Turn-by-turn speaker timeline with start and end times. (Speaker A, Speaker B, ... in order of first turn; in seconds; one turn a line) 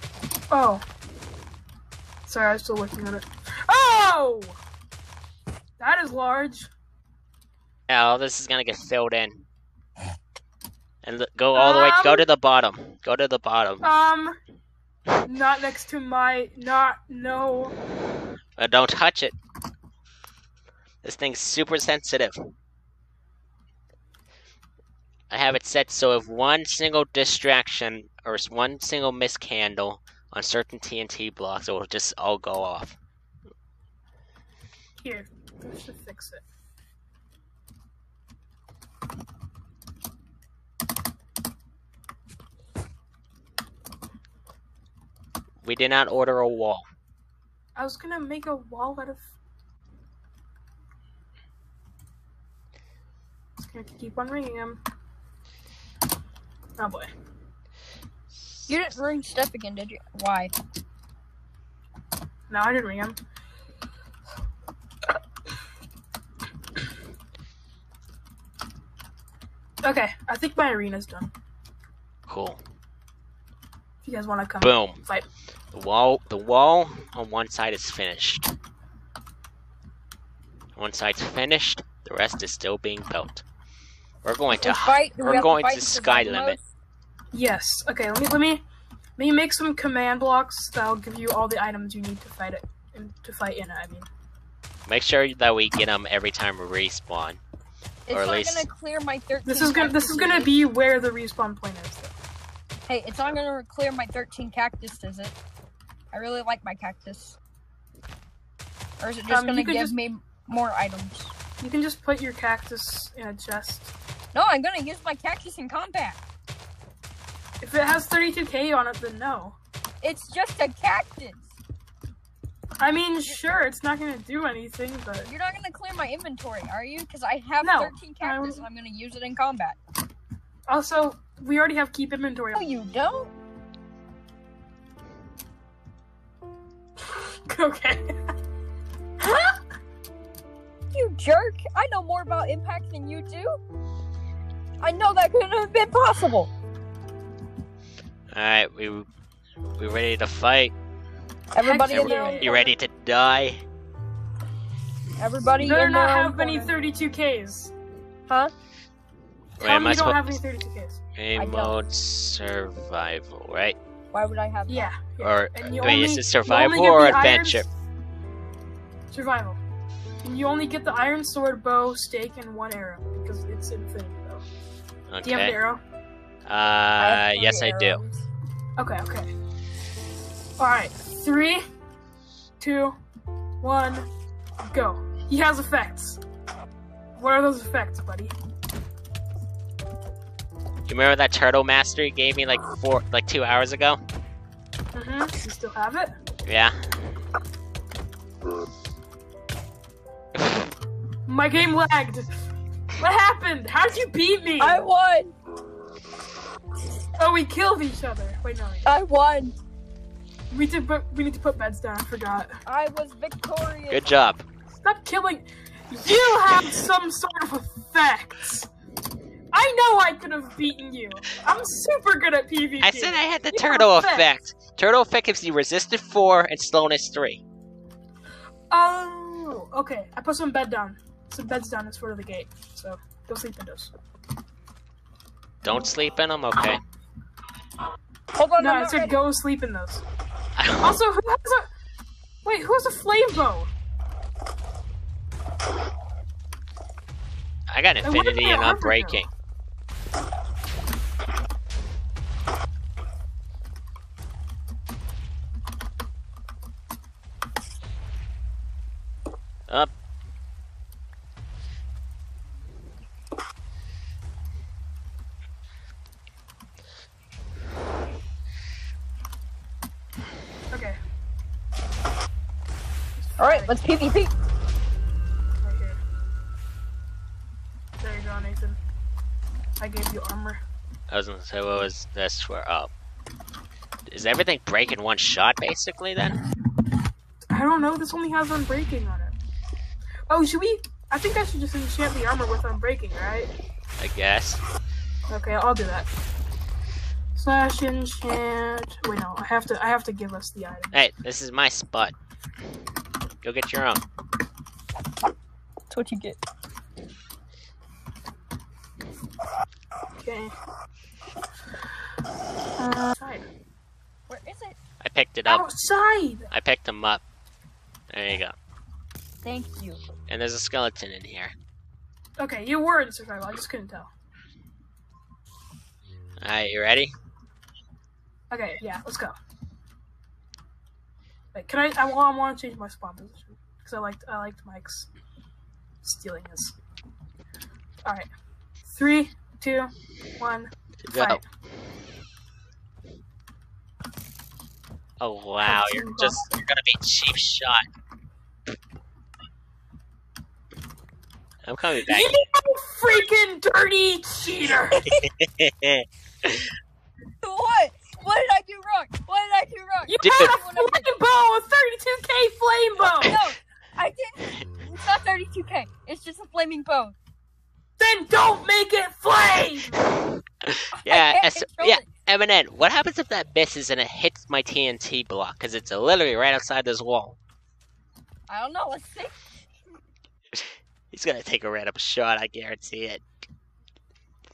Speaker A: 0.5-0.8
Speaker A: 2.2-4.6
Speaker A: 5.8-6.7
Speaker B: 7.9-9.4
Speaker B: 11.0-13.9
Speaker A: 11.5-12.3
Speaker A: 13.8-14.4
Speaker A: 15.2-17.7
Speaker B: 18.6-19.4
Speaker B: 21.0-22.3
Speaker B: 25.3-33.0
Speaker A: 35.0-36.4
Speaker B: 45.6-46.8
Speaker A: 47.8-49.3
Speaker A: 53.6-54.8
Speaker A: 56.8-57.1
Speaker C: 58.7-60.5
Speaker A: 62.5-63.2
Speaker A: 69.8-71.3
Speaker B: 72.3-72.6
Speaker A: 74.0-75.2
Speaker B: 74.6-75.0
Speaker B: 75.7-78.5
Speaker B: 80.7-83.4
Speaker B: 84.2-86.6
Speaker C: 84.6-86.7
Speaker A: 87.3-88.6
Speaker A: 89.2-94.1
Speaker B: 94.8-97.4
Speaker C: 98.1-100.6
Speaker B: 98.1-98.7
Speaker A: 99.4-102.1
Speaker C: 102.9-105.3
Speaker C: 106.1-107.3
Speaker C: 109.0-111.3
Speaker A: 109.3-110.0
Speaker A: 111.6-113.9
Speaker C: 114.3-116.2
Speaker A: 117.6-119.6
Speaker C: 120.0-121.5
Speaker A: 122.8-125.3
Speaker C: 125.2-129.8
Speaker A: 127.6-128.6
Speaker A: 130.7-132.7
Speaker C: 132.5-133.3
Speaker A: 137.1-138.2
Speaker A: 139.2-139.5
Speaker C: 140.9-143.6
Speaker C: 144.8-146.5
Speaker B: 148.3-149.1
Speaker B: 149.8-150.7
Speaker C: 151.5-152.5
Speaker A: 151.6-152.7
Speaker B: 151.9-153.6
Speaker C: 155.2-156.7
Speaker A: 155.6-157.7
Speaker C: 158.3-158.5
Speaker B: 159.6-160.4
Speaker A: 159.6-161.0
Speaker B: 161.2-163.8
Speaker C: 161.3-161.8
Speaker C: 164.1-164.9
Speaker A: 164.7-167.6
Speaker B: 165.2-167.7
Speaker A: 169.1-169.6
Speaker A: 170.2-174.4
Speaker B: 175.1-175.6
Speaker A: 175.2-175.8
Speaker B: 176.5-178.0
Speaker C: 177.0-178.2
Speaker A: 178.8-179.3
Speaker A: 180.6-181.6
Speaker A: 182.6-183.0
Speaker A: 183.6-184.1
Speaker A: 184.6-186.2
Speaker A: 187.2-188.3
Speaker B: 190.9-194.0
Speaker A: 194.9-196.1
Speaker B: 196.4-196.8
Speaker A: 201.3-202.4
Speaker A: 203.0-204.8
Speaker C: 204.6-205.3
Speaker A: 207.2-208.9
Speaker C: 208.8-209.6
Speaker A: 210.5-212.5
Speaker C: 212.7-214.2
Speaker B: 213.9-214.4
Speaker A: 214.7-218.7
Speaker A: 219.5-224.3
Speaker B: 222.8-227.4
Speaker A: 228.7-233.9
Speaker B: 235.6-236.8
Speaker C: 238.3-239.2
Speaker A: 238.6-240.0
Speaker B: 240.6-241.0
Speaker A: 240.8-241.7
Speaker A: 242.4-243.7
Speaker B: 247.7-249.3
Speaker A: 248.0-249.3
Speaker A: 270.7-271.0
Speaker A: 273.2-273.7
Speaker C: 273.4-274.3
Speaker A: 275.6-276.0
Speaker A: 278.0-278.8
Speaker A: 279.8-280.6
Speaker B: 281.1-282.9
Speaker B: 284.1-286.4
Speaker A: 287.5-289.4
Speaker A: 290.3-293.5
Speaker B: 294.0-294.6
Speaker A: 295.3-296.1
Speaker A: 297.3-301.0
Speaker B: 300.9-302.1
Speaker B: 303.4-304.0
Speaker C: 305.9-306.4
Speaker A: 310.2-310.5
Speaker A: 312.8-313.5
Speaker C: 314.3-314.8
Speaker B: 315.0-315.7
Speaker A: 315.4-316.5
Speaker B: 316.5-317.2
Speaker B: 318.1-318.5
Speaker C: 319.4-320.0
Speaker B: 320.3-321.5
Speaker A: 322.4-324.1
Speaker B: 326.4-327.1
Speaker A: 328.5-329.3
Speaker A: 331.5-335.1
Speaker A: 336.0-336.8
Speaker A: 338.8-341.4
Speaker B: 341.0-341.4
Speaker B: 345.2-347.8
Speaker A: 345.6-346.5
Speaker B: 351.6-352.3
Speaker A: 351.9-355.0
Speaker C: 354.9-355.2
Speaker B: 355.2-356.7
Speaker C: 357.4-361.2
Speaker A: 360.0-363.4
Speaker B: 360.2-360.5
Speaker C: 363.2-367.1
Speaker A: 368.0-370.0
Speaker B: 370.7-377.4
Speaker C: 370.9-372.1
Speaker C: 378.5-379.4
Speaker B: 381.1-383.2